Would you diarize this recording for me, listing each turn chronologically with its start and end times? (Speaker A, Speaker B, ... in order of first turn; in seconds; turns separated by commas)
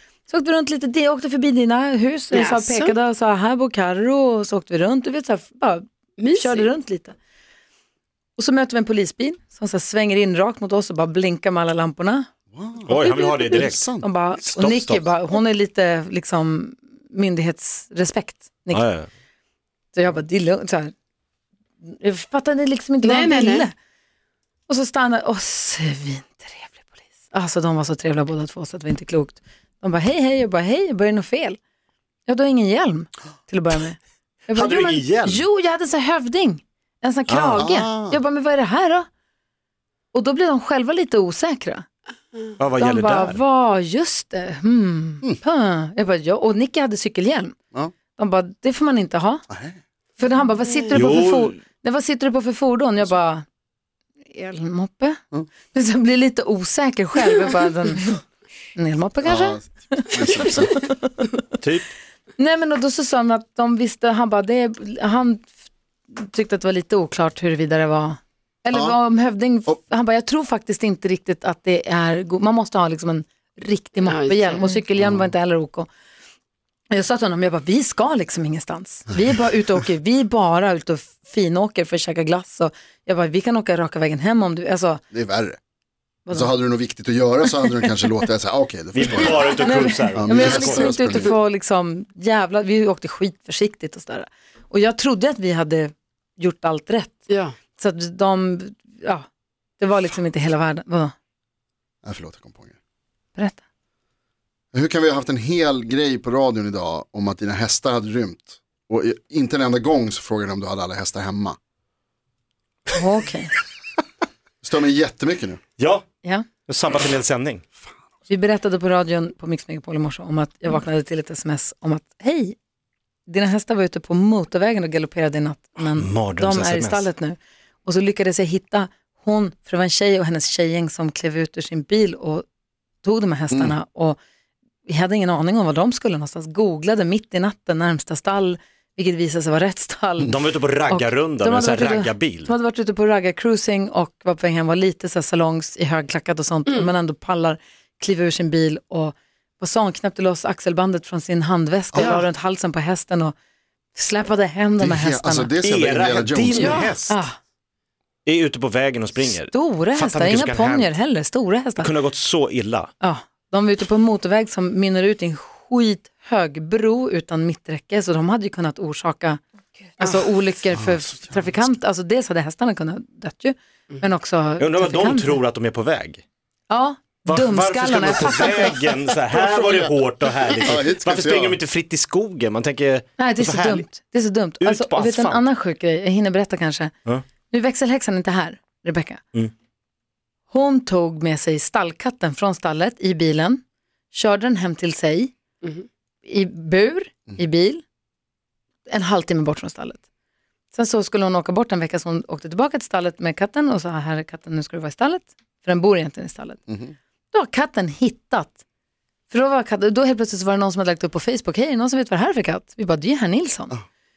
Speaker A: 0.3-7.2, Speaker B: 2.3-3.0, Speaker B: 6.2-6.7, Speaker A: 8.4-12.3, Speaker C: 12.5-14.1, Speaker D: 12.9-15.0, Speaker A: 12.9-18.9, Speaker D: 18.7-19.1, Speaker A: 19.9-20.9, Speaker A: 21.9-23.7, Speaker B: 23.0-23.6, Speaker A: 24.7-31.6, Speaker A: 32.3-39.1, Speaker D: 34.5-35.5, Speaker D: 37.3-37.7, Speaker C: 37.5-38.2, Speaker A: 40.1-41.9, Speaker D: 42.6-43.4, Speaker A: 42.8-47.6, Speaker A: 48.2-49.4, Speaker C: 49.5-49.8, Speaker A: 50.2-53.5, Speaker D: 50.9-51.6, Speaker A: 54.3-55.2, Speaker A: 55.7-58.2, Speaker A: 58.8-61.3, Speaker C: 59.2-60.7, Speaker D: 61.6-61.9, Speaker A: 62.4-65.5, Speaker A: 66.1-75.9, Speaker C: 68.7-69.0, Speaker B: 74.0-74.7, Speaker C: 75.0-75.3, Speaker A: 76.9-85.0, Speaker C: 85.1-85.6, Speaker A: 86.3-86.5, Speaker C: 86.3-89.6, Speaker D: 88.9-91.0, Speaker A: 89.6-97.2, Speaker C: 90.2-91.4, Speaker B: 97.3-97.6, Speaker A: 97.8-99.3, Speaker A: 99.8-101.1, Speaker C: 102.0-102.8, Speaker A: 103.4-103.6, Speaker C: 104.7-111.6, Speaker A: 112.9-113.5, Speaker C: 114.6-115.6, Speaker D: 115.8-116.1, Speaker D: 116.7-117.6, Speaker A: 118.3-122.6, Speaker A: 123.3-132.5, Speaker D: 126.0-127.1, Speaker A: 133.0-134.2, Speaker C: 133.5-133.8, Speaker A: 134.9-140.3, Speaker D: 140.2-142.5, Speaker A: 140.9-153.3, Speaker C: 151.9-152.2, Speaker B: 152.0-152.2, Speaker A: 153.9-155.5, Speaker C: 154.8-156.8, Speaker D: 155.6-157.2, Speaker B: 156.5-156.9, Speaker A: 157.1-157.4, Speaker D: 158.3-161.0, Speaker A: 159.5-161.9, Speaker D: 161.8-162.9, Speaker A: 163.0-169.4, Speaker A: 170.0-175.4, Speaker C: 170.7-171.7, Speaker D: 174.6-176.2, Speaker A: 176.7-178.8, Speaker D: 177.3-183.9, Speaker C: 179.3-179.9, Speaker C: 180.6-181.6, Speaker A: 183.2-186.9, Speaker D: 184.6-185.4, Speaker A: 187.5-189.2, Speaker A: 190.5-195.3, Speaker A: 196.2-197.8, Speaker A: 198.9-200.0, Speaker A: 200.7-206.6, Speaker C: 206.7-206.9, Speaker A: 207.3-208.6, Speaker A: 209.3-213.8